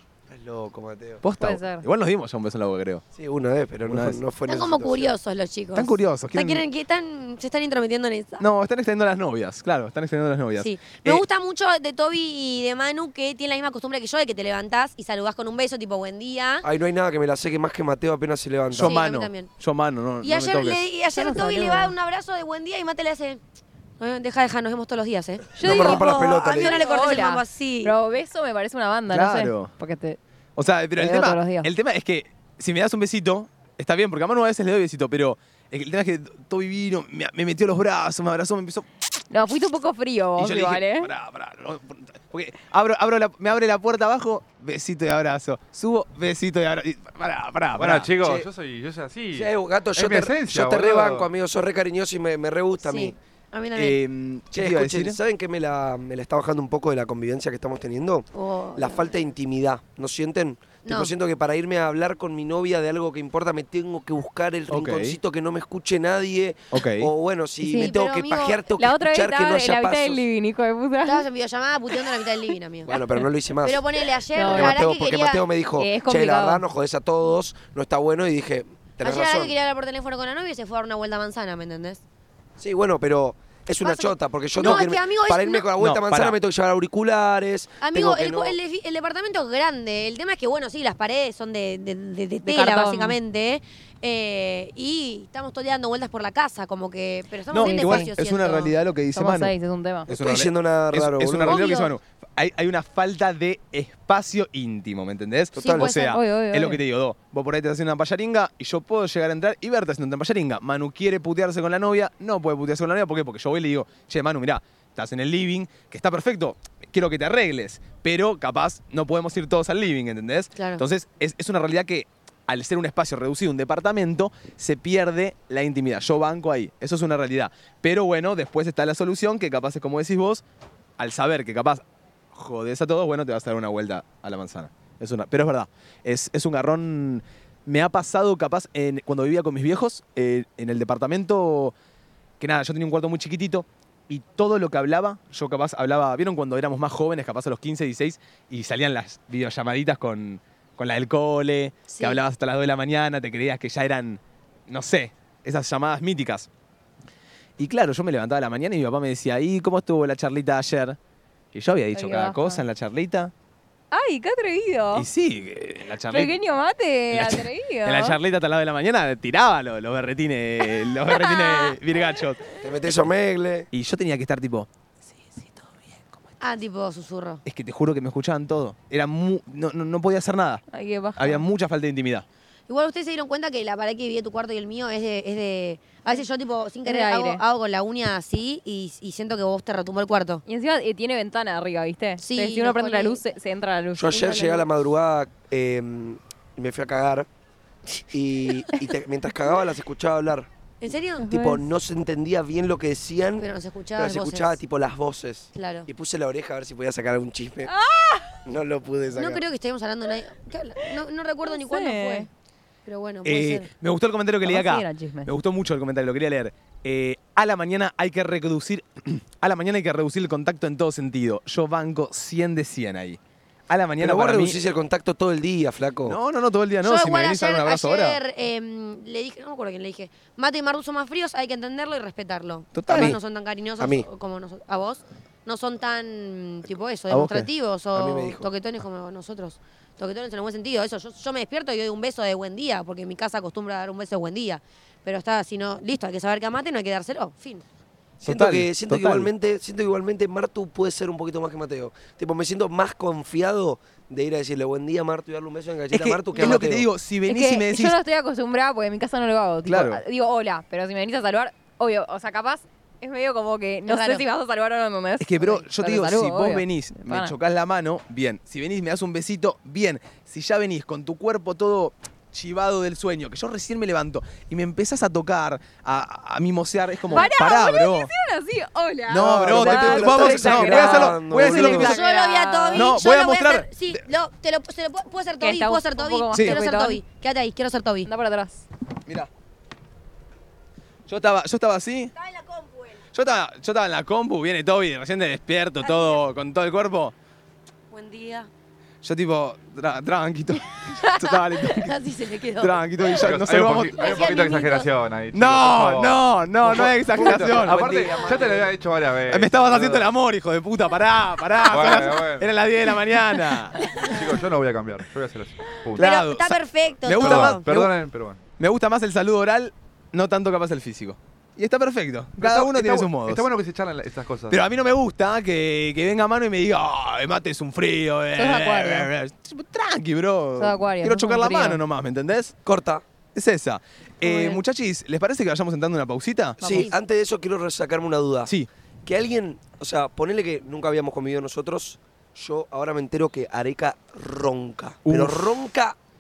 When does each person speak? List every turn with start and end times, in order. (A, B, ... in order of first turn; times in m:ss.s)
0:00.3-0:01.2 A
0:01.2-0:03.0 B
0:01.4-0:01.9 C
0:03.2-0:05.1 A
0:03.9-0:04.2 B
0:04.5-0:08.4 D
0:05.8-0:06.6 B
0:08.4-0:11.2 B
0:10.6-0:16.6 D
0:16.6-0:19.0 A
0:18.7-0:20.8 B
0:18.8-0:19.5 D
0:20.2-0:23.4 D
0:21.1-0:21.9 C
0:24.0-0:27.9 D
0:25.6-0:30.2 C
0:25.6-0:26.9 A
0:29.1-0:29.7 B
0:30.6-0:38.9 B
0:31.0-0:31.7 C
0:39.3-0:41.1 C
0:40.4-0:48.4 B
0:47.8-0:51.3 E
0:49.3-0:53.2 A
0:52.8-0:54.0 D
0:53.8-0:55.2 B
0:54.5-1:10.2 A
0:58.4-0:59.2 D
1:00.8-1:01.1 D
1:04.7-1:05.2 B
1:06.7-1:07.1 B
1:07.6-1:08.0 C
1:07.7-1:08.6 D
1:08.8-1:11.3 C
1:11.0-1:13.0 D
1:12.9-1:13.9 A
1:13.6-1:15.4 D
1:14.4-1:14.9 C
1:14.5-1:19.5 A
1:15.8-1:16.6 C
1:19.0-1:22.0 D
1:22.6-1:28.6 A
1:23.8-1:25.7 D
1:25.8-1:26.4 B
1:27.8-1:38.7 D
1:32.4-1:33.2 C
1:37.5-1:39.5 B
1:37.6-1:38.1 C
1:39.1-1:40.1 C
1:40.1-2:10.4 B
1:40.1-1:41.7 A
1:41.5-1:41.9 D
1:45.6-1:45.9 A
1:45.6-1:45.9 D
1:45.8-1:46.8 C
2:00.6-2:00.8 D
2:11.0-2:21.8 B
2:22.4-2:36.5 B
2:31.9-2:32.2 D
2:37.6-2:41.0 B
2:41.5-2:43.3 B
2:41.9-2:42.6 C
2:43.9-2:45.1 C
2:44.9-2:46.4 B
2:46.1-2:48.2 C
2:47.1-2:52.4 B
2:50.6-2:51.8 C
2:52.6-2:53.7 A
2:53.7-2:54.7 B
2:55.2-2:56.2 B
2:56.4-2:57.4 D
2:57.4-3:00.6 B
3:00.7-3:01.5 C
3:01.2-3:02.2 B
3:02.7-3:10.4 D
3:06.8-3:07.4 C
3:10.5-3:14.2 C
3:12.2-3:13.2 D
3:14.0-3:17.3 A
3:14.1-3:14.7 D
3:18.1-3:20.5 A
3:20.8-3:21.3 D
3:21.2-3:21.6 C
3:21.3-3:23.5 A
3:23.4-3:24.6 D
3:24.0-3:27.7 A
3:25.6-3:25.9 D
3:27.7-3:28.3 C
3:28.4-3:29.4 A
3:29.2-3:32.3 D
3:31.5-3:32.3 C
3:32.9-3:33.7 D
3:33.2-3:44.6 B
3:34.4-3:35.3 C
3:44.0-3:46.2 A
3:46.1-3:48.2 B
3:46.8-4:07.6 D
3:52.8-3:53.2 B
3:52.9-3:53.2 A
3:53.8-3:54.1 A
3:57.1-3:57.5 B
3:57.9-3:58.5 A
4:08.2-4:16.9 A
4:08.3-4:09.3 B
4:15.9-4:18.0 B
4:17.3-4:27.4 C
4:19.7-4:20.0 B
4:23.9-4:24.2 D
4:25.2-4:38.1 B
4:37.1-4:43.0 C
4:39.1-4:42.0 B
4:39.2-4:41.9 A
4:41.4-4:48.1 D
4:42.7-4:44.0 B
4:45.4-4:47.0 C
4:46.3-4:46.6 B
4:48.0-4:48.7 C
4:51.1-4:52.1 B
4:52.2-4:53.0 D
4:53.1-4:57.1 B
4:55.8-4:56.2 D
4:57.9-4:58.5 D
4:59.0-5:01.9 B
5:01.6-5:02.8 D
5:02.6-5:04.5 B
5:03.2-5:10.1 E
5:04.0-5:04.9 D
5:05.3-5:08.1 B
5:06.7-5:08.7 A
5:09.3-5:13.9 B
5:11.6-5:12.5 E
5:14.0-5:16.1 E
5:16.0-5:17.9 B
5:16.0-5:17.7 D
5:17.2-5:18.4 E
5:18.6-5:23.5 B
5:22.4-5:24.6 E
5:24.5-5:32.6 B
5:28.4-5:29.1 C
5:30.6-5:31.8 C
5:32.6-5:33.0 A
5:33.4-5:36.6 B
5:34.2-5:34.6 C
5:36.6-5:36.9 C
5:36.6-5:38.5 A
5:39.0-5:46.0 A
5:45.1-5:45.4 B